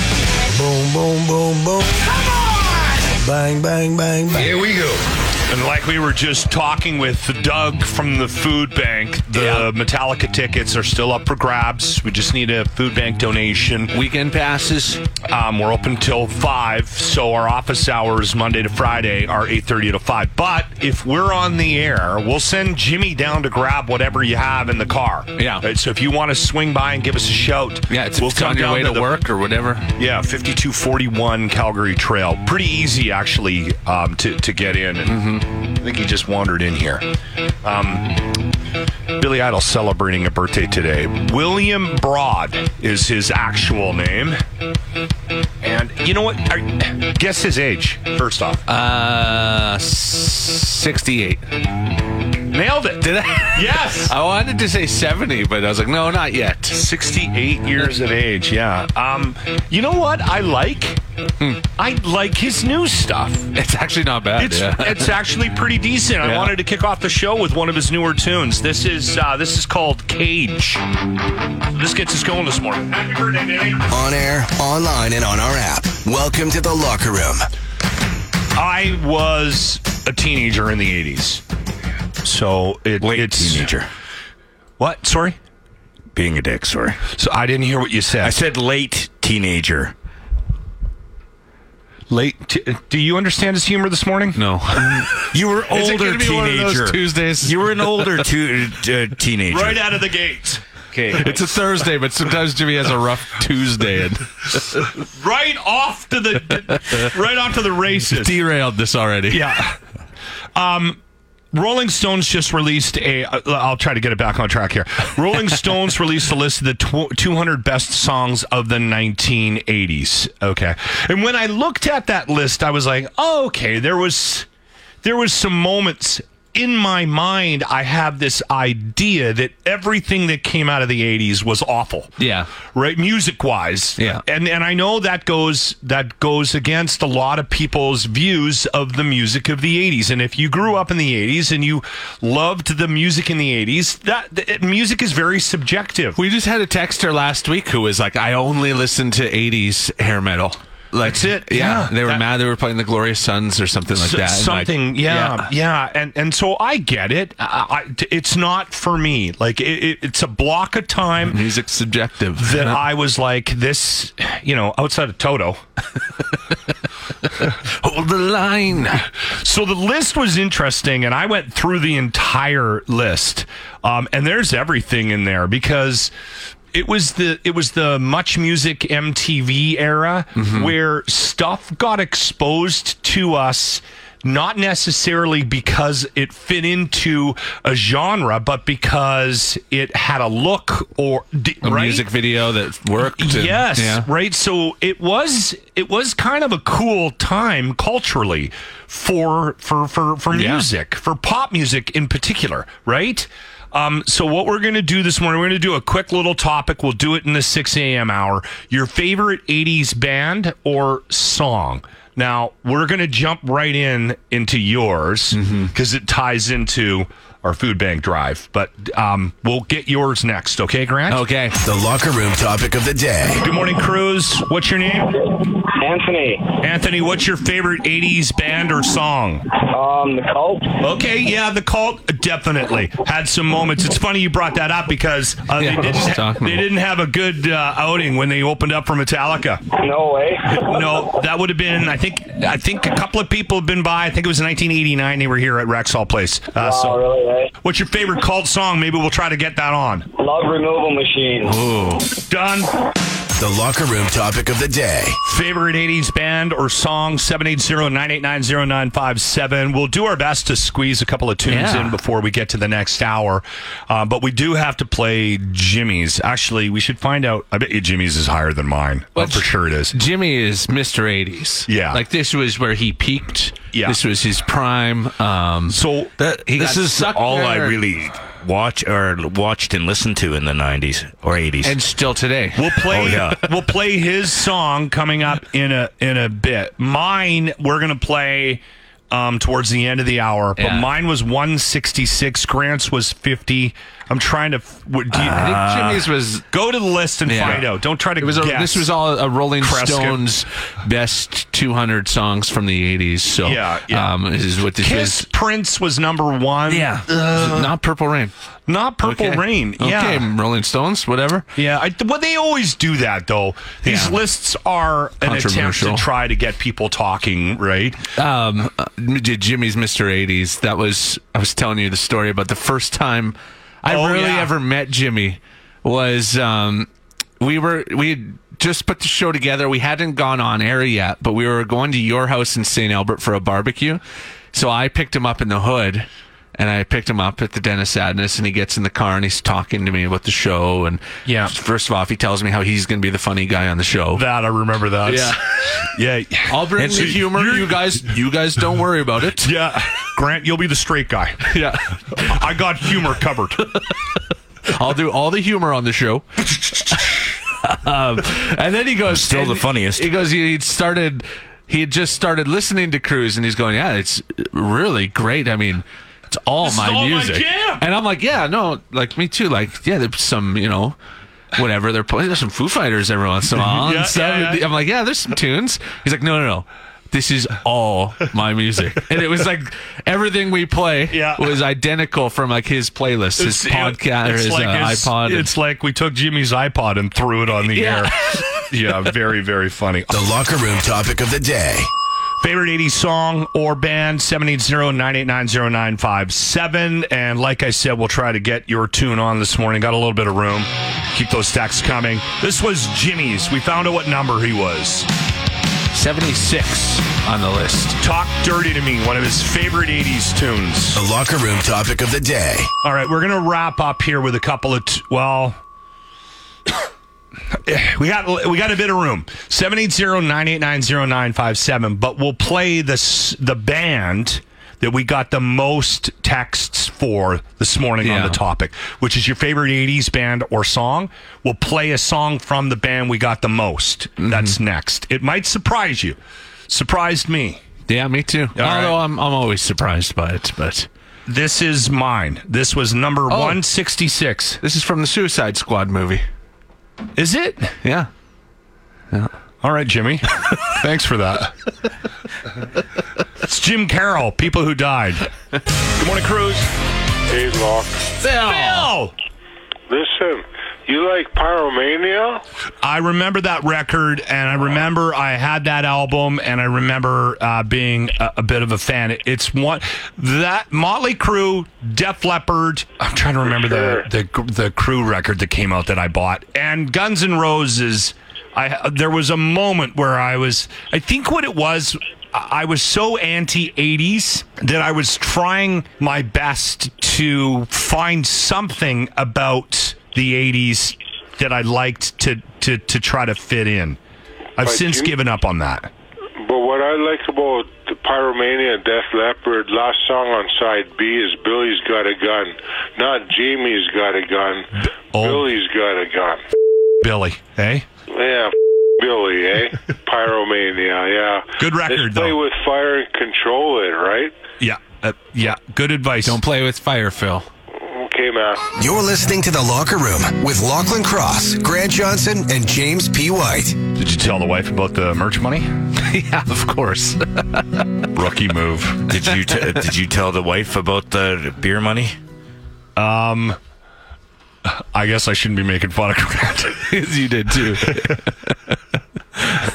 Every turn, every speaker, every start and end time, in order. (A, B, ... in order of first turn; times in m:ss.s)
0:00.5-0:01.8 A
0:03.2-0:04.7 A
0:04.4-0:04.9 B
0:05.5-0:13.9 B
0:09.3-0:09.7 C
0:13.9-0:15.0 C
0:15.3-0:29.2 B
0:25.4-0:25.6 C
0:27.9-0:29.9 C
0:30.0-0:37.0 B
0:35.1-0:35.5 C
0:37.6-0:38.2 B
0:39.2-0:44.4 B
0:45.6-0:48.6 B
0:48.7-0:51.5 C
0:52.5-0:54.1 B
0:53.0-0:56.8 C
0:56.7-1:01.0 B
1:01.8-1:03.5 B
1:03.5-1:05.2 C
1:04.4-1:10.8 B
1:06.2-1:06.5 C
1:11.7-1:13.9 B
1:13.9-1:17.4 D
1:18.6-1:21.4 B
1:22.2-1:23.7 B
1:23.0-1:23.9 E
1:24.8-1:25.4 B
1:26.2-1:27.0 E
1:27.2-1:28.3 B
1:28.2-1:29.9 E
1:32.1-1:34.4 B
1:34.4-1:37.6 C
1:35.2-1:39.8 E
1:39.5-1:40.6 B
1:41.0-1:41.2 E
1:41.1-1:44.6 C
1:44.9-1:48.4 B
1:48.1-1:49.6 C
1:49.3-1:49.8 B
1:50.6-1:51.0 B
1:51.5-2:04.5 B
2:05.0-2:26.2 B
2:12.2-2:12.5 C
2:14.0-2:14.2 C
2:26.2-2:35.5 C
2:31.0-2:32.2 B
2:34.0-2:41.4 B
2:41.3-2:42.8 C
2:42.4-2:45.6 B
2:47.4-2:49.1 C
2:49.3-2:56.1 B
2:56.7-3:12.1 B
3:00.4-3:00.8 C
3:11.6-3:14.1 C
3:13.2-3:41.2 B
3:20.3-3:20.7 C
3:35.3-3:35.7 C
3:41.1-3:41.6 C
3:41.6-3:43.4 D
3:43.4-3:45.2 B
3:45.0-3:46.6 F
3:46.6-3:49.5 B
3:49.6-3:50.8 F
3:50.8-3:59.6 B
3:55.6-3:56.6 C
3:59.7-4:01.0 F
4:00.5-4:07.0 B
4:06.6-4:07.5 F
4:07.6-4:10.1 B
4:10.2-4:11.6 F
4:11.4-4:12.1 C
4:12.3-4:12.7 B
4:13.4-4:15.2 D
4:15.3-4:30.0 B
4:21.5-4:22.0 C
4:29.2-4:37.8 C
4:31.7-4:32.0 B
4:33.7-4:34.0 B
4:35.7-4:36.1 B
4:36.4-4:41.8 E
4:41.6-4:43.2 C
4:42.6-4:58.9 B
4:42.9-4:43.5 E
4:50.6-4:50.9 C
4:55.1-4:56.4 C
4:57.3-4:57.7 C
4:58.2-5:05.2 C
4:59.6-5:00.2 B
5:03.4-5:04.1 B
5:04.8-5:07.7 B
5:06.7-5:08.3 C
5:08.7-5:10.3 B
5:09.0-5:11.5 C
5:11.6-5:18.0 B
5:13.8-5:14.2 C
5:15.2-5:16.1 C
5:18.2-5:26.9 C
5:23.9-5:24.5 B
5:27.4-5:34.0 C
5:34.5-5:44.2 C
5:41.3-5:41.5 B
5:44.1-5:48.0 B
5:45.1-5:45.8 C
5:46.5-5:49.5 C
5:49.4-5:51.5 B
5:51.4-5:52.4 C
5:52.2-5:53.8 B
5:54.7-6:11.0 C
5:59.1-6:00.1 E
6:06.6-6:07.8 B
6:11.6-6:25.5 C
6:13.6-6:14.6 B
6:21.1-6:21.6 B
6:23.4-6:28.2 B
6:27.7-6:28.6 C
6:28.7-6:30.1 B
6:30.1-6:31.9 D
6:32.4-6:45.1 B
6:45.9-6:48.0 C
6:48.0-6:51.0 B
6:51.0-6:52.7 D
6:52.8-6:55.6 B
6:57.6-7:16.2 B
7:08.0-7:08.4 C
7:14.2-7:14.6 C
7:16.7-7:17.6 B
7:17.9-7:20.9 C
7:18.6-7:19.0 B
7:21.3-7:24.6 B
7:23.3-7:23.6 C
7:24.6-7:26.2 C
7:27.2-7:27.8 B
7:27.8-7:28.1 C
7:29.6-7:31.5 B
7:33.4-7:35.3 B
7:36.0-7:36.7 B
7:37.3-7:38.1 G
7:38.2-7:38.9 C
7:38.4-7:39.1 B
7:39.9-7:42.4 G
7:42.8-8:14.0 B
7:53.5-7:54.0 G
8:14.6-8:15.9 B
8:14.6-8:15.1 G
8:16.4-8:26.4 G
8:25.1-8:25.5 B
8:27.0-8:27.8 B
8:28.1-8:34.4 G
8:31.6-8:32.4 B
8:34.6-8:36.4 B
8:36.2-8:37.5 C
8:37.7-8:38.7 G
8:38.8-8:43.8 D
8:43.9-8:45.7 B
8:46.0-8:47.8 C
8:48.1-8:49.0 B
8:49.1-8:52.2 E
8:53.0-8:53.6 B
8:54.7-8:56.9 B
8:56.9-8:58.5 C